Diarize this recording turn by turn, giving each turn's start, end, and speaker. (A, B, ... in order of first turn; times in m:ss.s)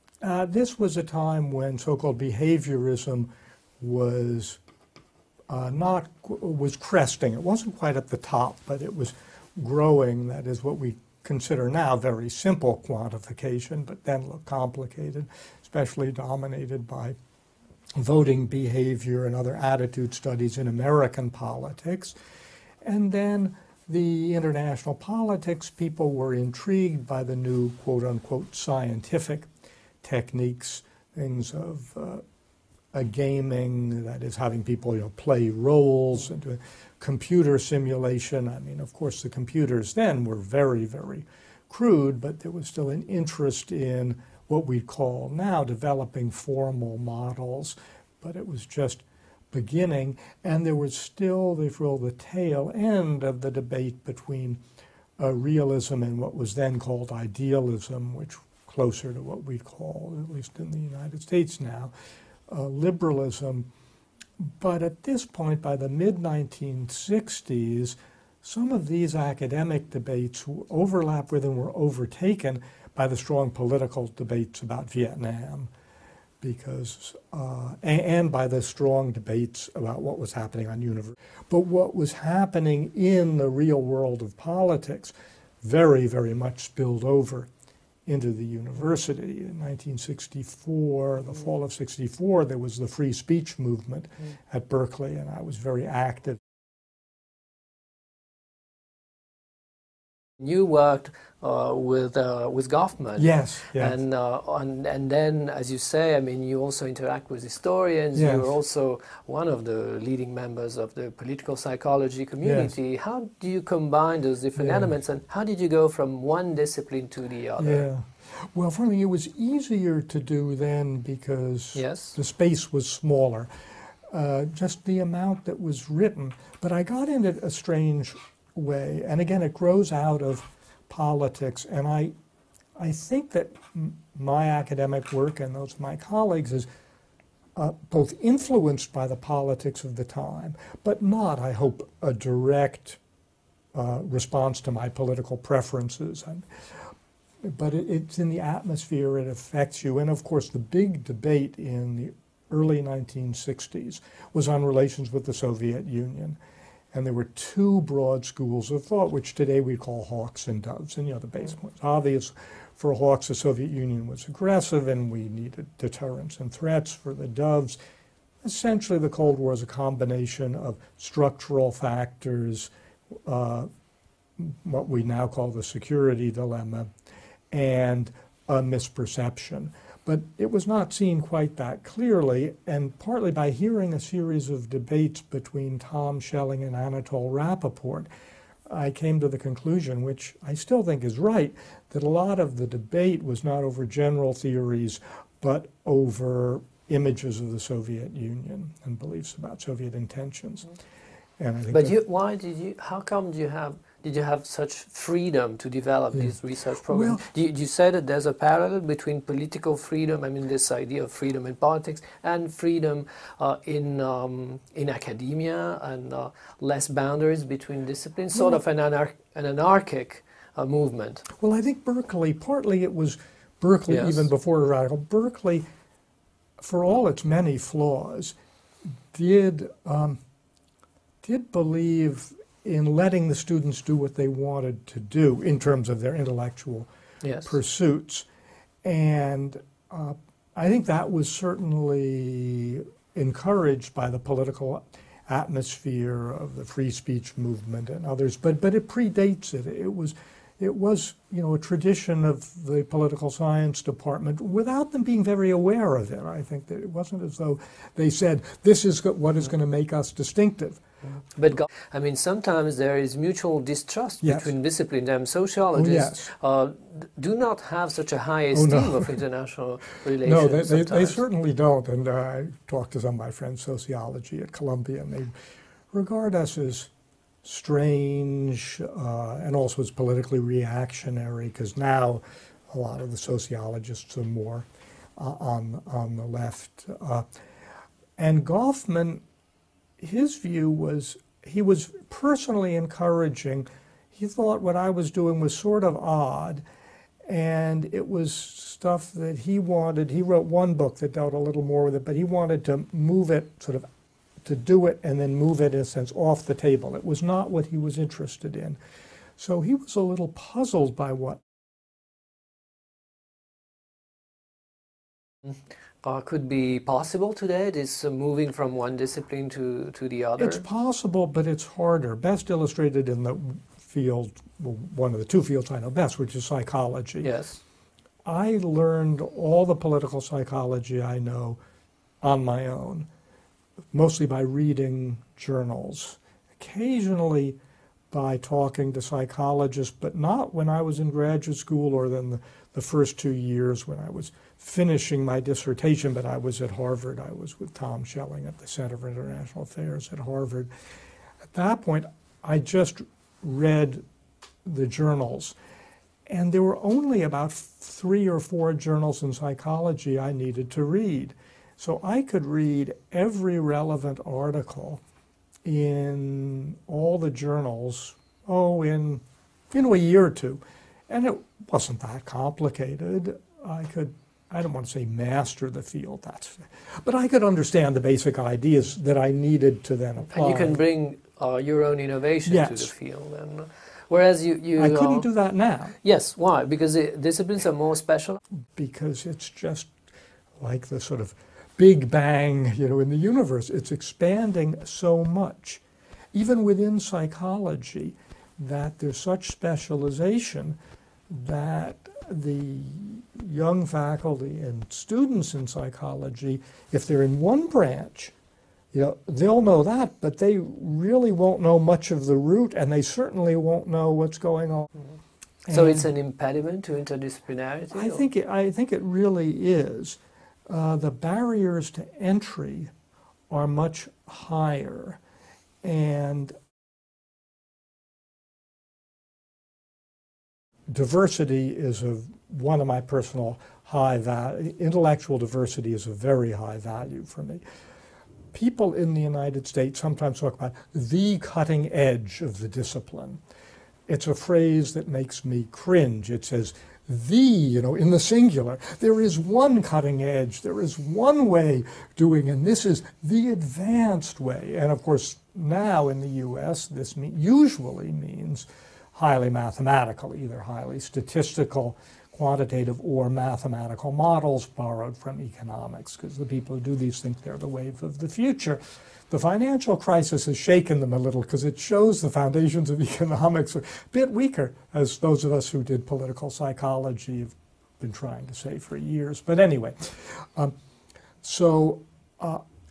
0:00.2-0:03.3 A
0:03.8-0:04.6 A
0:05.5-0:17.1 A
0:18.0-0:22.2 A
0:22.8-0:29.5 A
0:30.0-0:32.2 A
0:32.9-0:54.6 A
0:55.2-1:01.9 A
1:02.5-1:03.7 A
1:04.4-1:15.7 A
1:16.4-1:27.5 A
1:28.0-1:36.4 A
1:40.4-1:57.9 B
1:43.2-1:44.0 A
1:48.1-1:48.5 A
1:52.4-1:52.7 A
1:54.6-1:54.9 A
1:57.6-2:03.5 A
2:01.7-2:02.2 B
2:04.1-2:12.1 A
2:12.8-2:16.7 A
2:17.6-2:23.0 A
2:23.7-2:26.4 A
2:27.4-2:36.4 A
2:36.9-2:47.8 A
2:48.4-2:52.7 A
2:53.2-2:53.7 A
2:54.4-2:56.9 A
2:57.5-3:08.1 A
3:08.7-3:20.7 A
3:21.4-3:21.9 A
3:21.7-3:41.2 B
3:26.9-3:27.2 A
3:38.3-3:38.6 A
3:41.4-3:45.6 A
3:43.9-3:44.3 B
3:46.6-3:48.3 A
3:49.1-3:50.2 A
3:51.2-3:56.9 A
3:57.2-3:57.6 B
3:57.4-3:58.2 A
3:58.8-4:20.8 A
4:21.3-4:31.2 B
4:24.2-4:24.5 A
4:25.7-4:26.3 A
4:28.5-4:29.2 A
4:30.2-4:35.3 A
4:35.9-4:36.9 A
4:37.4-4:47.2 A
4:48.2-4:49.2 A
4:50.0-4:56.6 A
4:57.3-5:03.8 A
5:04.4-5:08.8 A
5:09.4-5:11.4 A
5:16.0-5:20.6 B
5:20.4-5:27.3 A
5:27.2-5:27.6 B
5:28.2-5:31.6 A
5:32.2-5:33.1 A
5:33.9-5:37.6 A
5:38.1-5:50.7 A
5:51.5-5:54.0 A
5:54.6-5:55.6 A
5:56.3-6:05.0 A
6:05.6-6:20.8 A
6:20.2-6:25.3 B
6:22.4-6:22.9 A
6:24.8-6:25.9 A
6:26.0-6:28.4 B
6:28.7-6:29.9 A
6:30.6-6:35.8 A
6:36.3-6:40.8 A
6:41.3-6:48.3 A
6:48.9-6:54.9 A
6:55.6-6:56.1 A
6:55.7-6:58.2 B
6:57.9-7:02.9 A
7:03.5-7:05.2 A
7:05.8-7:06.5 A
7:10.9-7:17.6 A
7:18.5-7:23.4 A
7:24.1-8:00.7 A
8:01.4-8:02.6 A